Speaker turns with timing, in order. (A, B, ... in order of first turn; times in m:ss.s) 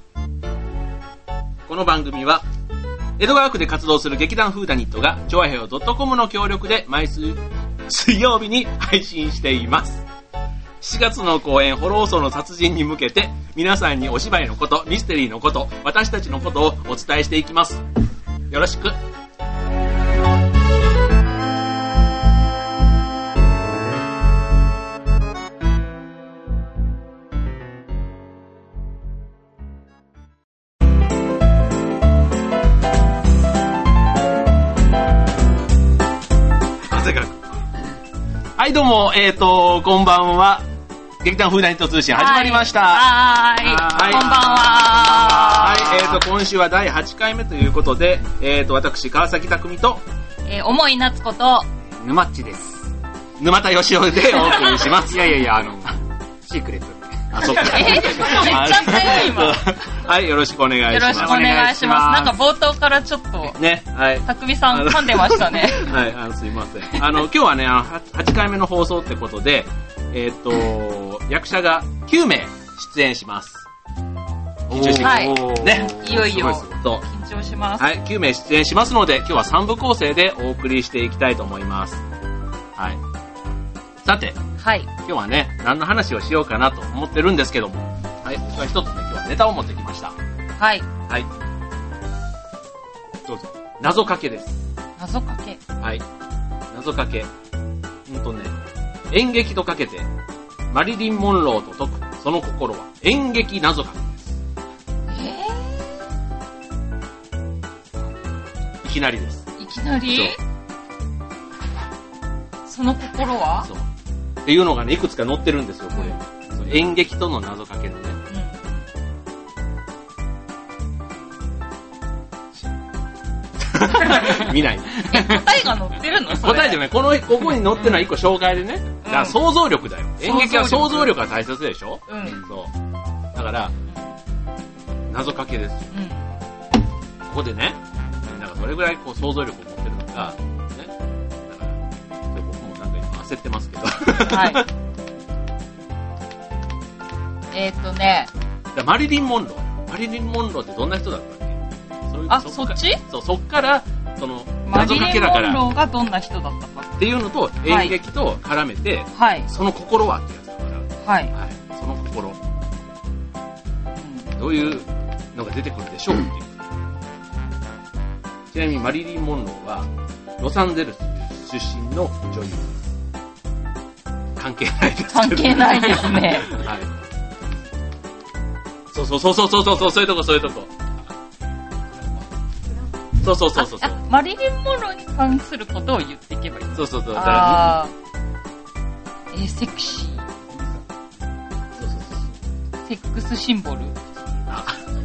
0:01.7-0:02.4 A
0:03.2-0:10.0 A
0:10.8-0:17.8 A
0:18.5-0:19.0 A
0:36.9-0:37.4 A
0:38.6-0:40.6 A
0:41.2-0:50.0 A
0:42.1-0:46.1 B
0:50.5-0:51.7 B
0:52.0-0:52.8 C
0:53.4-0:55.3 A
0:55.0-0:57.2 C
0:57.3-1:02.3 A
0:57.4-0:59.6 B
1:00.9-1:03.6 B
1:01.3-1:02.3 C
1:03.4-1:13.6 A
1:04.2-1:05.9 B
1:14.7-1:17.0 A
1:14.7-1:16.6 C
1:15.0-1:17.9 B
1:17.7-1:22.0 A
1:24.0-1:24.4 A
1:24.6-1:24.9 B
1:25.0-1:30.2 A
1:30.6-1:30.9 B
1:33.8-1:34.6 A
1:35.0-1:35.6 B
1:36.7-1:37.3 A
1:38.0-1:38.6 A
1:39.1-1:40.1 A
1:40.7-1:44.2 A
1:45.1-1:46.0 B
1:48.8-1:50.4 A
1:49.6-1:50.4 B
1:52.6-1:53.7 B
1:53.6-1:53.8 A
1:54.4-1:58.2 A
1:58.3-1:58.6 B
2:03.7-2:12.7 A
2:05.1-2:06.8 B
2:07.7-2:08.1 B
2:09.0-2:09.4 B
2:10.2-2:11.1 B
2:12.1-2:12.4 B
2:13.3-2:13.8 A
2:15.1-2:15.9 A
2:15.9-2:16.2 B
2:17.3-2:20.9 A
2:21.5-2:24.7 A
2:24.2-2:24.6 B
2:27.5-2:28.3 B
2:28.7-2:35.7 A
2:32.3-2:33.0 B
2:34.6-2:36.9 B
2:37.0-2:42.4 A
2:37.6-2:38.0 B
2:39.1-2:39.5 B
2:41.0-2:41.3 B
2:44.0-2:44.3 B
2:44.3-2:46.6 A
2:48.5-2:52.8 A
2:54.4-2:57.0 A
2:55.1-2:56.5 B
2:58.9-3:00.7 A
3:03.2-3:04.0 A
3:03.5-3:07.9 B
3:06.7-3:07.8 A
3:09.3-3:10.2 B
3:11.8-3:12.3 A
3:12.8-3:13.9 B
3:14.5-3:14.8 A